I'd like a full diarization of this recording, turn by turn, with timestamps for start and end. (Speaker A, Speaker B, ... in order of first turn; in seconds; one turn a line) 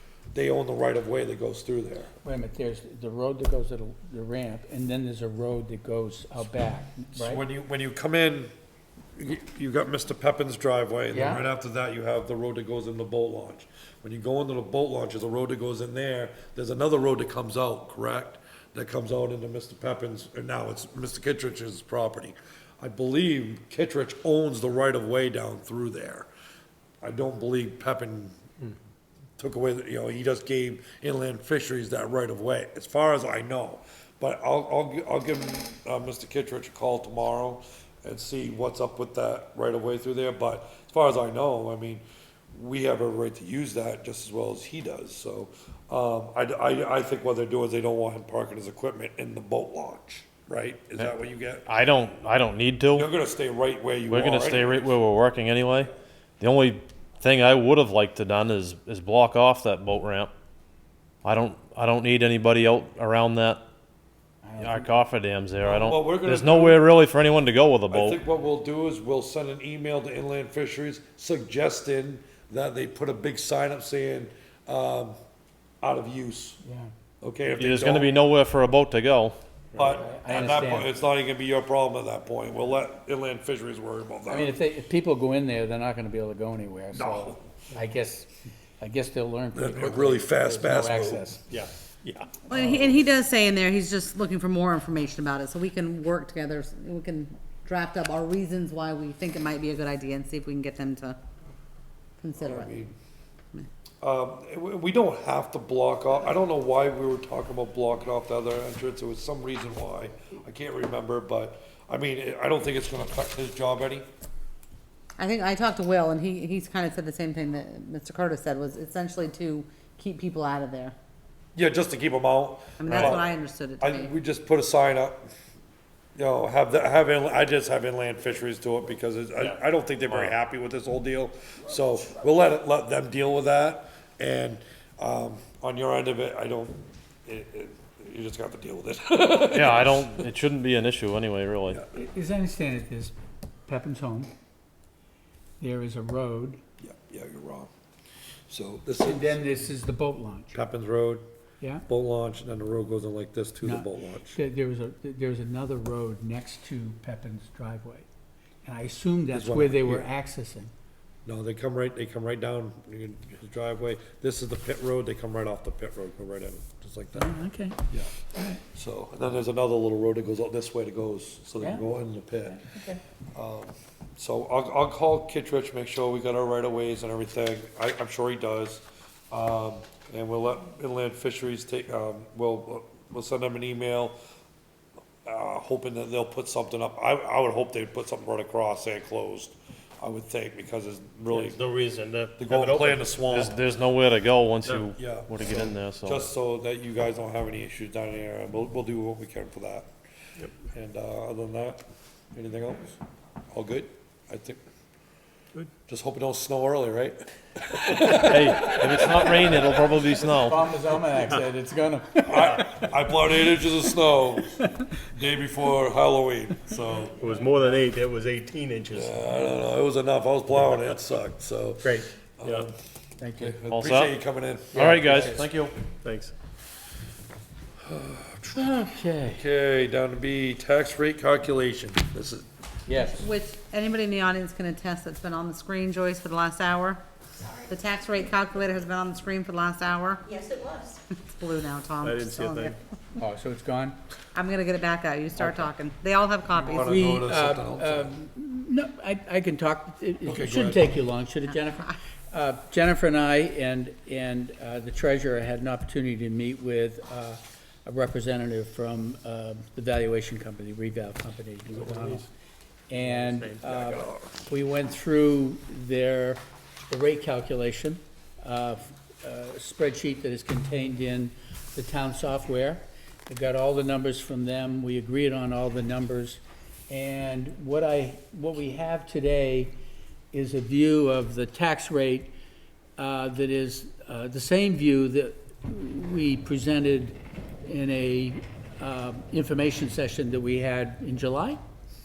Speaker A: 0.3-2.1
Speaker B: 2.2-7.4
Speaker A: 7.2-8.5
Speaker A: 9.2-26.3
Speaker B: 11.1-11.4
Speaker A: 27.0-28.4
Speaker A: 29.4-51.6
Speaker C: 51.6-53.1
Speaker A: 52.9-55.0
Speaker C: 54.1-60.3
Speaker C: 61.2-63.6
Speaker B: 64.4-65.0
Speaker C: 64.6-68.2
Speaker A: 65.6-66.8
Speaker A: 67.9-75.2
Speaker A: 75.8-76.6
Speaker B: 76.6-76.9
Speaker A: 77.2-78.1
Speaker C: 77.6-79.3
Speaker D: 79.7-80.0
Speaker A: 79.8-84.5
Speaker B: 80.0-80.9
Speaker B: 84.3-91.5
Speaker A: 86.9-87.4
Speaker A: 89.5-91.2
Speaker D: 91.5-92.4
Speaker E: 92.5-101.2
Speaker E: 102.2-102.7
Speaker A: 102.4-102.9
Speaker A: 104.0-114.0
Speaker E: 115.2-120.9
Speaker A: 121.5-125.2
Speaker E: 122.8-124.1
Speaker C: 122.9-123.2
Speaker A: 126.2-140.2
Speaker C: 139.5-141.8
Speaker B: 141.9-143.1
Speaker B: 143.7-144.3
Speaker B: 145.6-146.6
Speaker A: 146.8-147.7
Speaker A: 148.5-149.4
Speaker B: 149.0-150.6
Speaker A: 150.5-151.2
Speaker B: 151.6-151.8
Speaker A: 151.9-154.4
Speaker B: 153.6-158.1
Speaker B: 158.6-160.7
Speaker A: 159.3-160.1
Speaker A: 161.2-167.3
Speaker B: 167.1-168.6
Speaker A: 167.9-172.6
Speaker B: 171.6-171.8
Speaker B: 172.5-173.0
Speaker A: 173.3-184.2
Speaker A: 185.2-191.6
Speaker D: 191.3-193.0
Speaker A: 192.4-193.6
Speaker C: 192.9-196.2
Speaker D: 194.6-194.9
Speaker A: 194.9-199.9
Speaker A: 200.6-201.8
Speaker A: 202.3-203.0
Speaker A: 203.5-204.6
Speaker A: 205.9-209.5
Speaker C: 208.1-210.6
Speaker B: 210.3-212.9
Speaker A: 212.2-217.2
Speaker B: 213.9-214.8
Speaker D: 217.2-219.2
Speaker A: 218.9-222.7
Speaker D: 221.8-222.7
Speaker B: 223.2-223.6
Speaker A: 223.3-225.4
Speaker C: 223.7-224.2
Speaker B: 224.7-225.4
Speaker C: 224.7-225.7
Speaker D: 226.0-226.3
Speaker A: 227.9-228.6
Speaker B: 228.5-229.4
Speaker A: 229.2-232.5
Speaker B: 232.9-233.3
Speaker E: 233.2-237.0
Speaker E: 237.7-242.8
Speaker D: 242.0-242.8
Speaker B: 243.2-244.0
Speaker E: 244.3-246.9
Speaker A: 245.4-245.7
Speaker A: 246.5-248.2
Speaker B: 246.8-262.3
Speaker A: 250.2-250.9
Speaker D: 261.7-262.2
Speaker B: 262.9-279.7
Speaker D: 262.9-263.9
Speaker A: 263.8-264.4
Speaker B: 280.3-282.3
Speaker B: 283.0-291.6